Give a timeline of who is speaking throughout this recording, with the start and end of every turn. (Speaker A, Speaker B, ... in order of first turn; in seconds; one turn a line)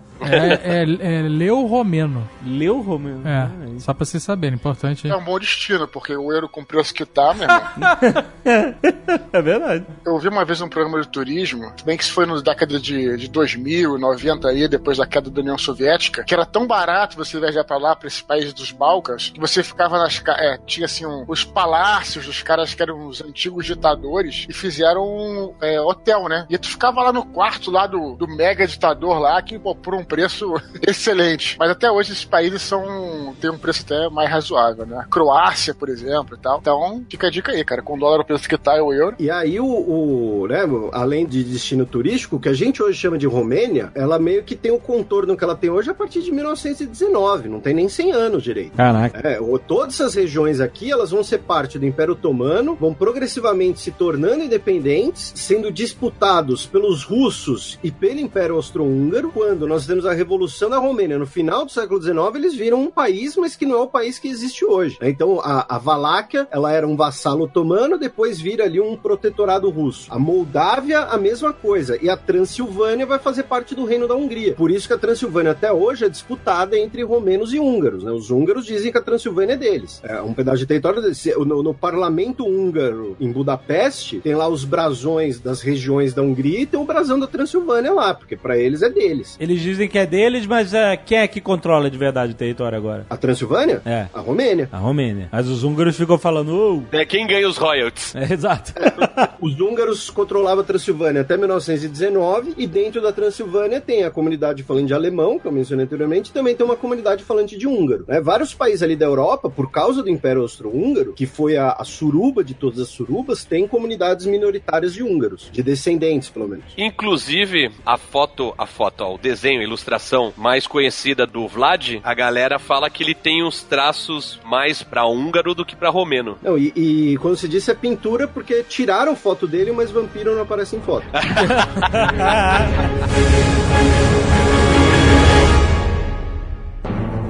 Speaker A: 0.2-2.3
Speaker B: 2.4-3.8
Speaker A: 3.2-5.2
Speaker C: 5.1-7.7
Speaker A: 7.5-7.9
Speaker B: 7.8-9.9
Speaker C: 10.0-39.2
Speaker D: 39.2-89.4
Speaker B: 48.8-49.1
Speaker B: 89.4-93.1
Speaker D: 93.1-94.7
Speaker B: 93.8-94.1
Speaker B: 94.7-96.9
Speaker E: 96.9-98.1
Speaker B: 98.1-99.3
Speaker D: 98.8-116.7
Speaker E: 116.8-126.4
Speaker D: 126.4-131.1
Speaker E: 131.2-132.2
Speaker B: 131.4-132.8